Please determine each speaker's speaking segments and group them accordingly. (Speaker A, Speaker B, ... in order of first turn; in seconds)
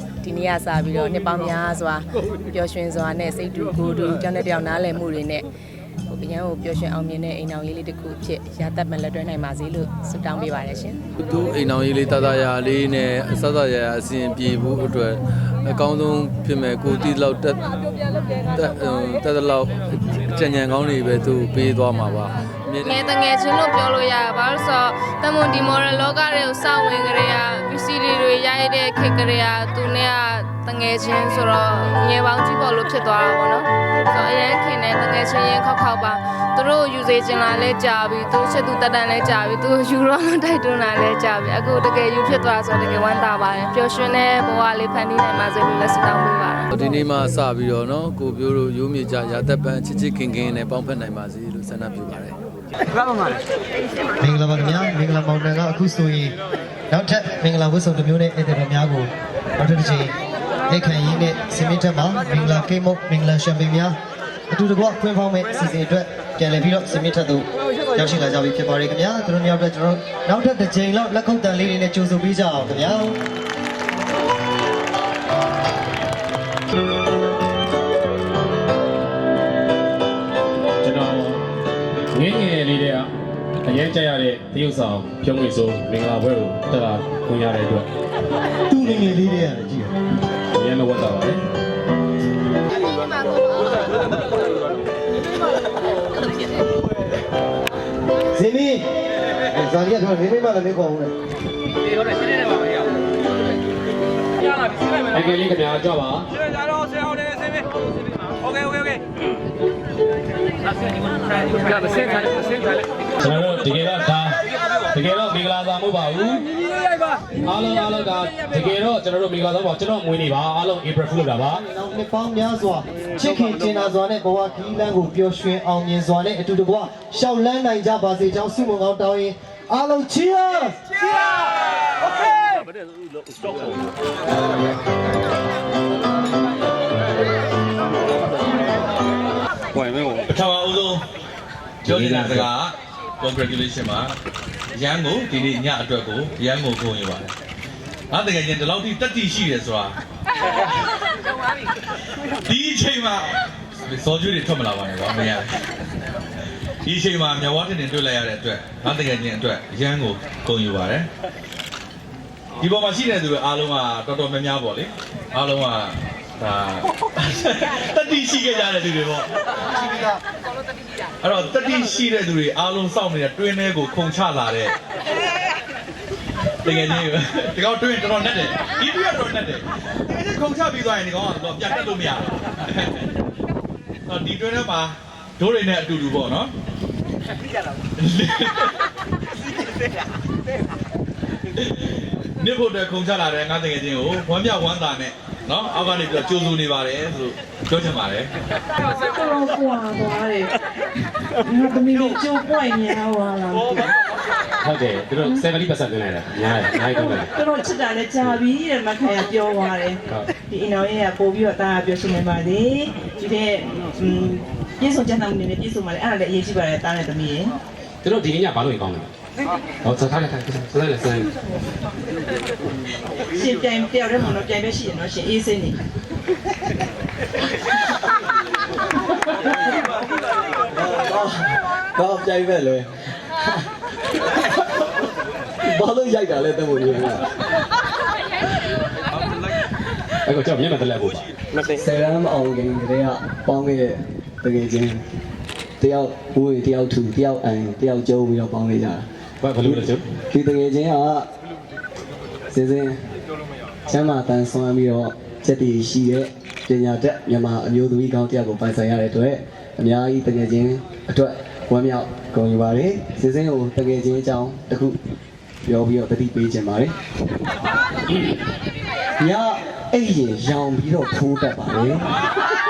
Speaker A: 0.2-5.5, 6.1-11.0
Speaker B: 11.2-17.6, 18.5-23.1, 46.7-52.4
Speaker C: 22.9-46.7
Speaker D: 54.2-56.4, 56.9-60.1, 60.7-64.0, 64.5-73.2, 88.7-90.0, 98.3-98.9, 99.5-101.2, 121.5-130.8
Speaker E: 80.8-81.4, 82.1-83.1, 83.6-87.9, 90.5-91.4, 105.1-106.3, 113.2-116.5, 117.4-121.6, 139.8-140.2, 141.9-142.4, 204.6-207.3, 218.0-219.1, 219.8-221.2, 240.2-241.3, 249.4-250.1
Speaker F: 140.3-141.0, 141.8-144.1, 144.7-147.3, 148.1-150.0, 152.4-155.6, 156.8-161.1, 162.6-170.1, 171.2-174.7, 176.6-183.0, 184.1-186.5, 188.0-188.7, 191.6-198.3
Speaker G: 199.2-200.5, 201.5-203.8, 207.4-210.0, 210.5-217.6, 223.3-225.8
Speaker H: 230.7-233.7, 235.6-237.3, 241.7-245.0, 245.8-249.1, 249.6-251.3, 252.5-253.1, 253.9-265.0, 265.6-267.0, 269.2-272.1